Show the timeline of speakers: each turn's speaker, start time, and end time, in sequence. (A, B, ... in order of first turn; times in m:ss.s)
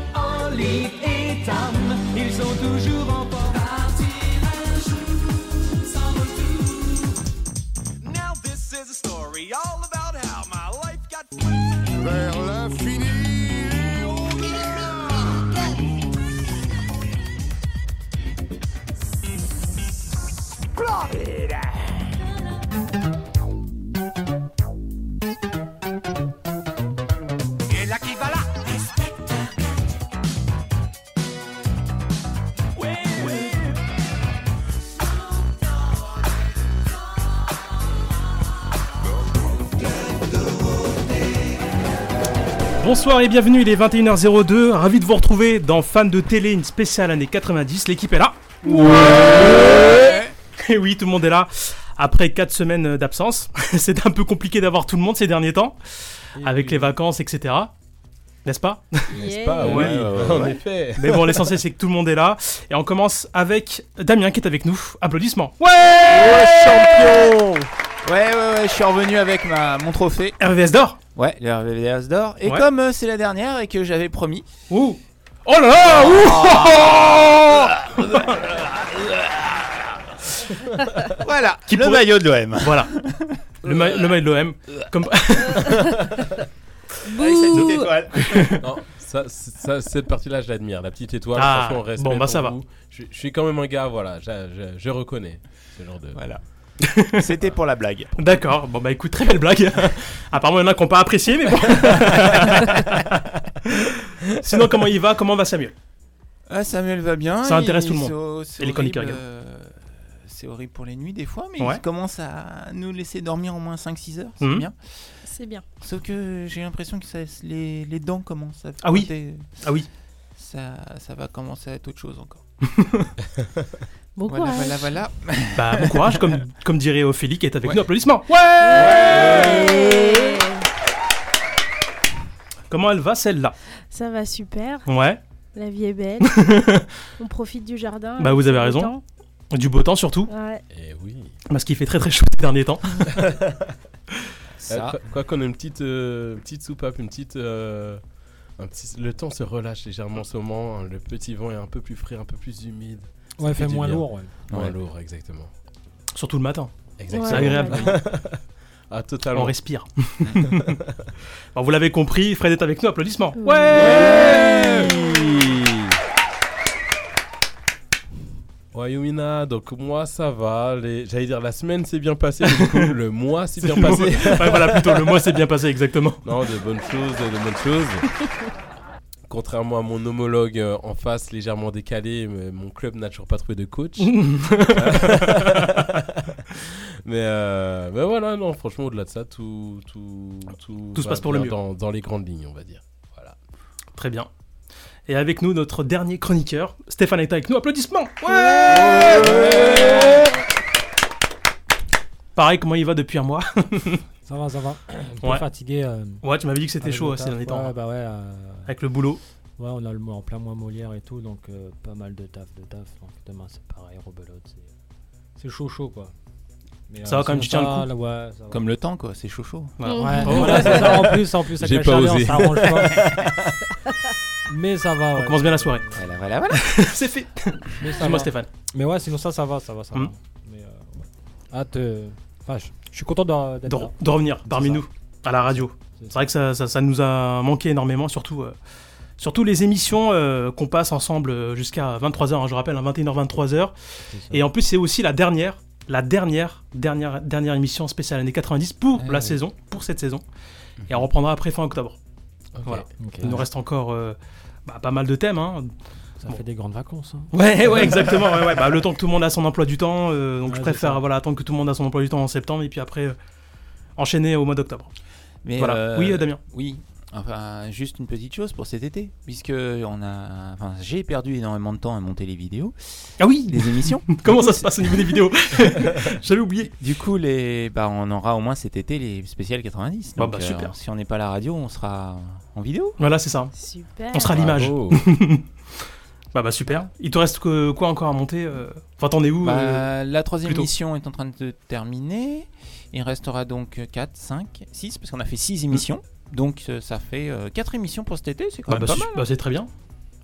0:00.1-0:04.8 A
0:06.0-0:06.9 A
0:08.0-0:11.4 B
0:42.8-0:48.6 C
0:49.0-0:50.3 D
0:49.8-0:50.2 E
0:50.6-0:55.8 C
0:56.4-0:57.0 F
0:56.4-0:57.7 C
0:58.4-0:59.0 C
0:59.1-1:01.4 G
0:59.1-0:59.8 E
0:59.6-1:00.0 C
0:59.7-1:00.6 D
1:01.0-1:06.4 C
1:06.1-1:07.7 G
1:08.0-1:10.4 D
1:10.4-1:11.0 C
1:11.2-1:14.5 D
1:14.7-1:16.8 C
1:15.9-1:19.8 D
1:21.2-1:24.1 D
1:21.7-1:22.1 C
1:22.6-1:22.9 C
1:23.6-1:25.7 C
1:27.0-1:28.0 E
1:27.2-1:28.6 C
1:27.5-1:28.3 D
1:28.6-1:36.2 G
1:31.3-1:32.6 C
1:36.1-1:36.4 D
1:36.9-1:37.2 C
1:37.1-1:38.4 D
1:38.2-1:45.7 C
1:41.7-1:42.8 D
1:46.5-1:55.1 D
1:47.4-1:49.2 C
1:54.4-1:54.7 C
1:55.2-1:55.6 E
1:55.8-1:59.6 D
1:58.8-1:59.9 C
2:00.4-2:02.4 D
2:02.7-2:03.1 C
2:04.2-2:04.9 E
2:04.3-2:06.3 D
2:05.6-2:09.2 C
2:08.7-2:10.6 E
2:12.7-2:13.6 C
2:13.9-2:14.9 E
2:14.9-2:15.2 C
2:15.6-2:16.4 E
2:16.2-2:16.9 C
2:17.2-2:19.0 E
2:18.2-2:18.9 C
2:19.5-2:20.3 C
2:20.3-2:20.6 E
2:20.7-2:21.3 G
2:21.5-2:23.1 C
2:23.2-2:23.8 G
2:24.6-2:25.0 D
2:24.7-2:28.0 G
2:28.6-2:35.5 G
2:33.4-2:34.3 F
2:34.5-2:34.8 D
2:36.2-2:36.7 C
2:37.0-2:39.6 G
2:37.1-2:37.9 E
2:37.2-2:38.0 C
2:39.3-2:40.8 C
2:40.4-2:41.1 G
2:41.6-2:44.7 C
2:43.4-2:45.5 E
2:44.2-2:45.9 G
2:48.7-2:55.1 G
2:53.6-2:56.2 C
2:56.2-2:58.1 G
2:59.3-3:13.4 G
3:04.0-3:05.7 C
3:11.0-3:11.6 C
3:14.0-3:14.3 C
3:15.1-3:20.2 C
3:19.1-3:19.7 G
3:22.4-3:24.0 C
3:24.3-3:26.2 F
3:26.2-3:27.7 C
3:26.8-3:28.7 F
3:28.7-3:29.2 C
3:29.6-3:34.7 F
3:35.4-3:36.1 F
3:36.9-3:38.7 F
3:37.0-3:37.9 C
3:38.5-3:39.8 D
3:39.8-3:40.8 C
3:39.9-3:40.5 E
3:40.0-3:43.0 F
3:40.5-3:43.5 G
3:44.5-3:46.0 F
3:45.2-3:45.9 C
3:46.0-3:46.7 D
3:46.5-3:48.5 C
3:47.8-3:54.8 F
3:53.7-3:58.6 C
3:55.5-3:56.3 F
3:59.2-4:03.7 C
4:04.1-4:04.5 F
4:04.3-4:10.2 C
4:09.0-4:09.4 D
4:10.9-4:12.0 C
4:12.6-4:12.9 G
4:12.6-4:15.7 C
4:13.0-4:13.4 F
4:16.2-4:17.3 F
4:17.3-4:23.2 C
4:20.5-4:21.0 F
4:24.0-4:24.9 C
4:25.4-4:35.1 D
4:25.6-4:26.4 C
4:33.2-4:36.7 C
4:36.8-4:43.0 D
4:40.2-4:40.8 C
4:43.0-4:43.5 C
4:43.6-4:44.4 E
4:44.1-4:45.4 C
4:44.2-4:45.1 G
4:46.3-4:49.9 C
4:49.4-4:59.2 D
4:50.4-4:50.7 C
4:58.7-4:59.7 C